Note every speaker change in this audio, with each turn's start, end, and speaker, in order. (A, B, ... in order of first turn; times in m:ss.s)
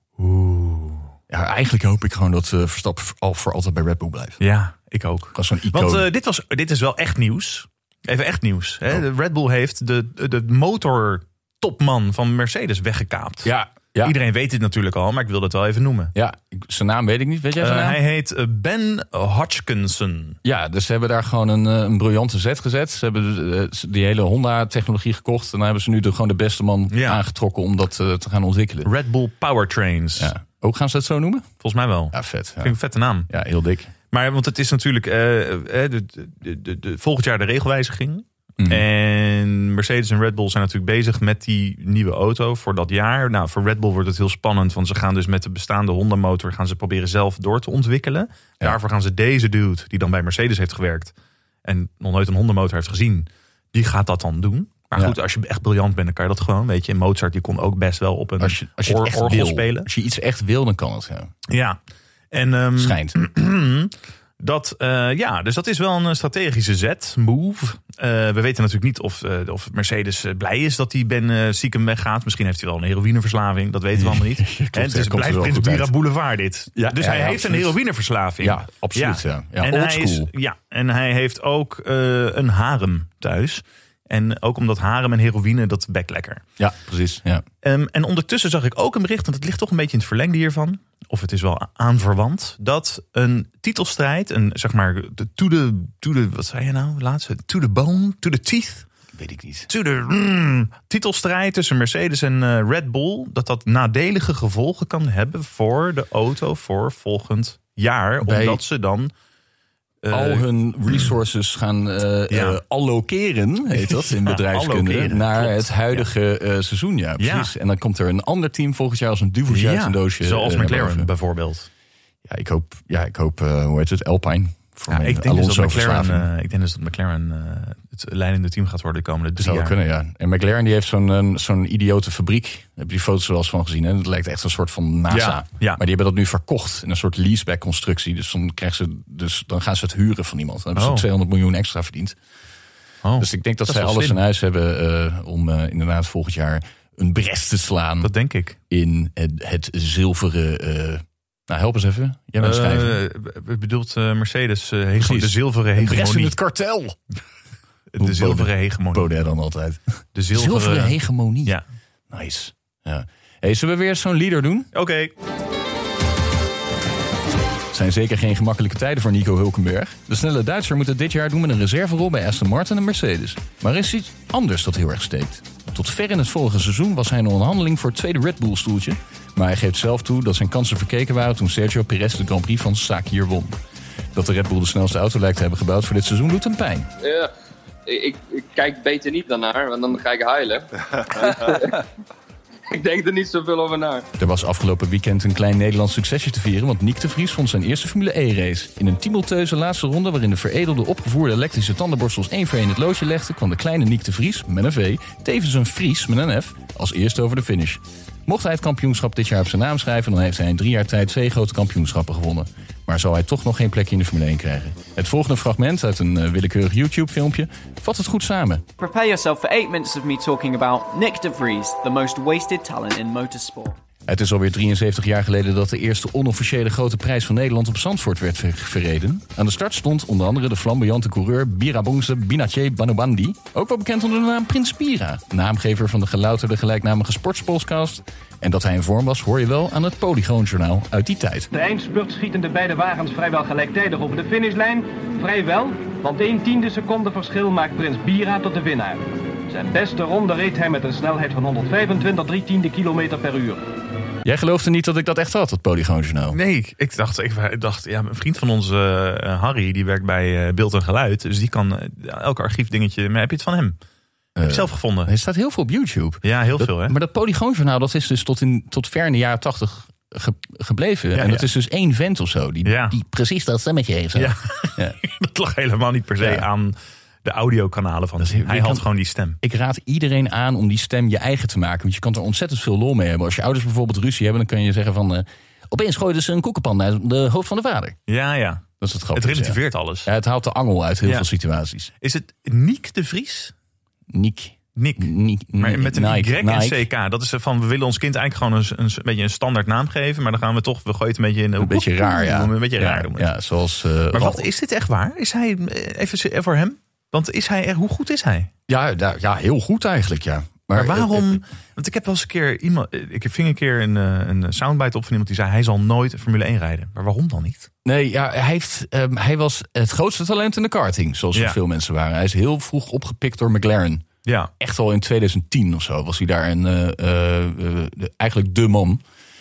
0:00.2-0:01.1 A
0:01.3-0:04.4 B
0:04.4-0:16.1 A
0:05.3-0:06.1 B
0:13.4-0:14.1 B
0:16.1-0:18.0 B
0:17.6-0:20.4 A
0:20.4-0:28.9 B
0:26.9-0:27.2 A
0:28.8-0:30.3 A
0:30.2-0:31.5 B
0:31.6-0:33.3 A
0:32.1-0:32.8 B
0:33.3-0:33.9 B
0:34.1-0:51.1 A
0:38.6-0:38.8 B
0:51.6-0:59.9 A
0:58.4-1:01.3 B
1:01.5-1:01.8 A
1:02.3-1:26.4 A
1:02.8-1:03.1 B
1:13.9-1:15.9 B
1:16.7-1:17.8 B
1:18.4-1:20.3 B
1:26.6-1:27.4 B
1:27.6-1:38.9 A
1:39.1-1:39.7 B
1:39.7-1:49.1 A
1:48.2-1:48.6 B
1:50.0-1:51.1 A
1:50.1-2:01.1 B
1:52.3-1:52.6 A
1:53.7-1:56.1 A
1:57.2-1:57.5 A
1:59.5-2:01.7 A
2:02.2-2:06.3 B
2:04.9-2:09.8 A
2:09.4-2:22.2 B
2:15.1-2:15.8 A
2:20.8-2:21.1 A
2:23.0-2:24.2 A
2:23.2-2:28.1 B
2:28.0-2:28.6 A
2:28.7-2:33.0 B
2:32.4-2:36.4 A
2:35.0-2:37.0 B
2:37.9-2:39.1 A
2:38.0-2:41.6 B
2:40.1-2:41.6 A
2:42.1-2:44.7 B
2:44.7-2:45.1 A
2:47.7-3:03.6 B
3:04.1-3:06.9 B
3:07.0-3:07.3 C
3:07.9-3:11.8 C
3:12.7-3:14.0 C
3:14.2-3:38.6 B
3:38.8-3:43.8 D
3:44.1-4:01.5 B
4:01.5-4:13.6 E
4:14.2-4:16.4 B
4:16.3-4:23.8 A
4:24.4-4:35.0 B
4:24.4-4:25.1 A
4:26.2-4:26.9 A
4:31.1-4:31.5 A
4:32.6-4:33.0 A
4:34.1-4:39.4 A
4:36.2-4:36.5 B
4:38.2-4:38.9 B
4:39.4-4:48.0 B
4:48.1-4:50.1 A
4:48.8-4:51.9 B
4:52.0-4:53.5 A
4:54.1-4:56.8 B
4:54.8-5:03.3 A
5:01.6-5:04.5 B
5:04.1-5:08.5 A
5:08.7-5:11.4 B
5:10.7-5:17.7 A
5:17.8-5:24.0 B
5:24.6-5:29.0 B